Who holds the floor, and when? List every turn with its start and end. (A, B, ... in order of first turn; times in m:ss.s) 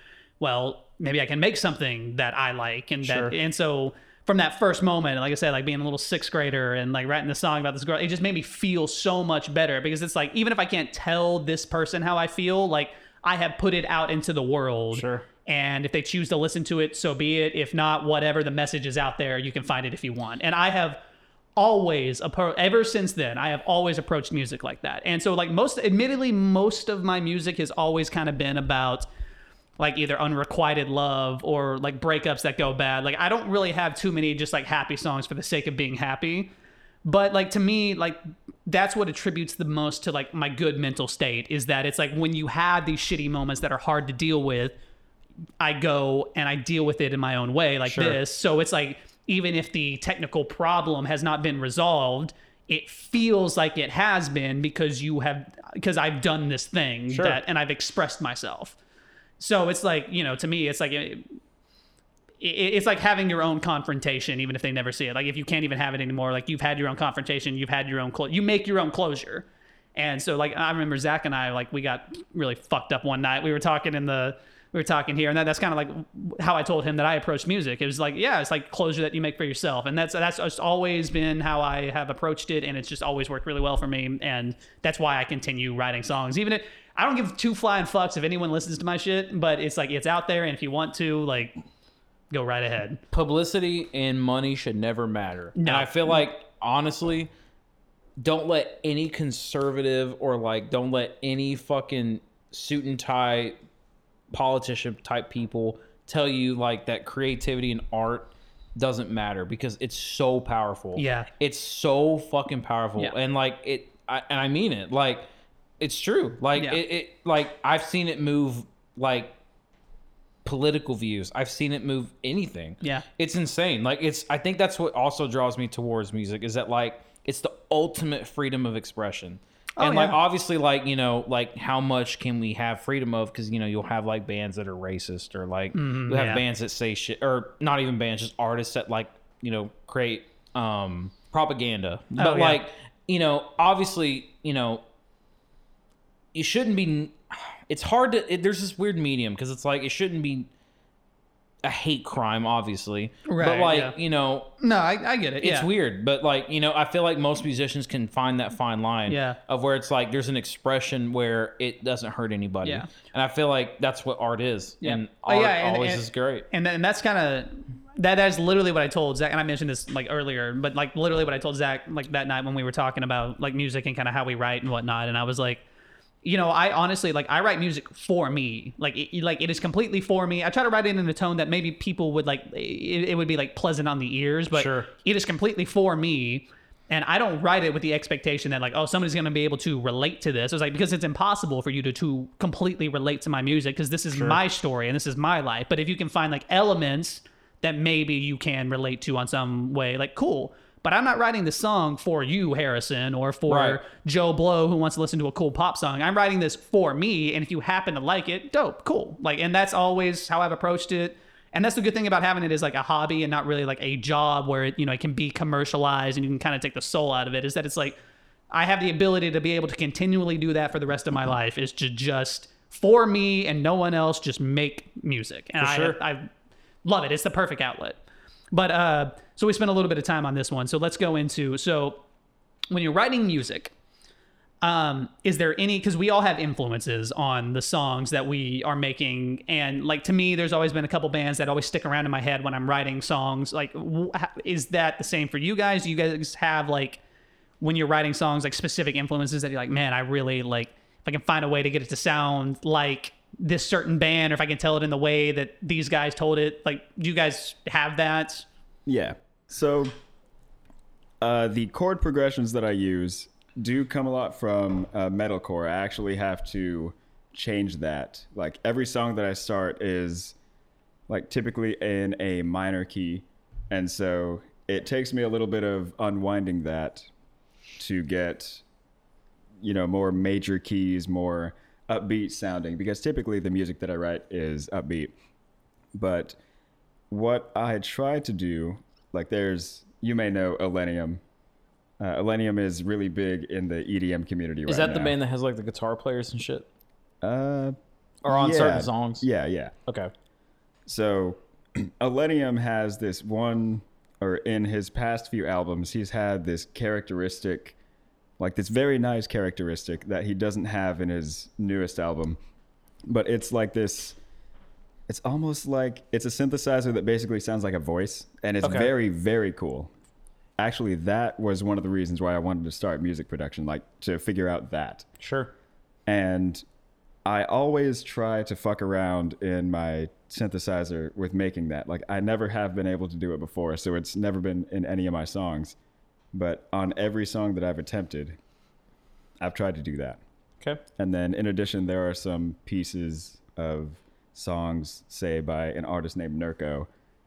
0:00.4-0:21.0 A
0:03.0-0:03.3 B
0:14.9-0:15.2 B
0:21.6-0:29.1 A
0:29.8-0:36.5 A
0:37.0-0:44.7 A
0:45.6-0:58.8 A
0:47.8-0:48.2 B
0:57.1-0:57.4 B
0:59.4-1:01.2 A
1:02.4-1:31.5 A
1:32.3-1:33.0 A
1:33.1-1:37.3 B
1:35.6-1:36.2 A
1:38.2-1:43.6 B
1:44.3-1:55.3 B
1:51.0-1:51.3 A
1:55.8-1:59.3 B
1:56.5-1:56.8 A
2:00.4-2:24.8 B
2:09.8-2:10.2 A
2:15.7-2:16.4 A
2:22.2-2:22.6 A
2:26.3-2:30.5 B
2:31.6-2:34.5 B
2:33.3-2:33.9 A
2:34.6-2:35.7 A
2:35.4-2:46.5 B
2:39.1-2:39.4 A
2:44.8-2:55.6 A
2:56.2-3:38.0 A
3:04.5-3:04.9 B
3:14.1-3:14.4 B
3:23.5-3:23.8 B
3:38.5-3:46.3 A
3:45.6-3:46.0 B
3:46.8-3:48.0 A
3:48.5-3:52.0 A
3:52.7-3:53.7 A
3:54.6-4:07.0 A
4:07.6-4:18.5 A
4:18.8-4:19.9 C
4:21.2-4:30.4 C
4:31.1-4:37.1 C
4:37.8-4:38.6 C
4:39.6-4:45.1 C
4:46.0-4:46.4 C
4:47.1-4:51.2 C
4:52.0-4:55.1 C
4:54.6-4:56.6 B
4:57.2-4:57.8 C
4:58.2-4:59.2 B
4:58.3-4:59.7 C
5:00.8-5:07.8 C
5:08.4-5:12.4 C
5:13.0-5:14.2 C
5:15.1-5:19.9 C
5:18.6-5:18.9 B
5:20.6-5:25.0 C
5:25.2-5:25.5 B
5:26.1-5:26.6 C
5:27.2-5:35.8 C
5:36.3-5:38.4 C
5:39.4-5:40.2 C
5:41.0-5:46.9 C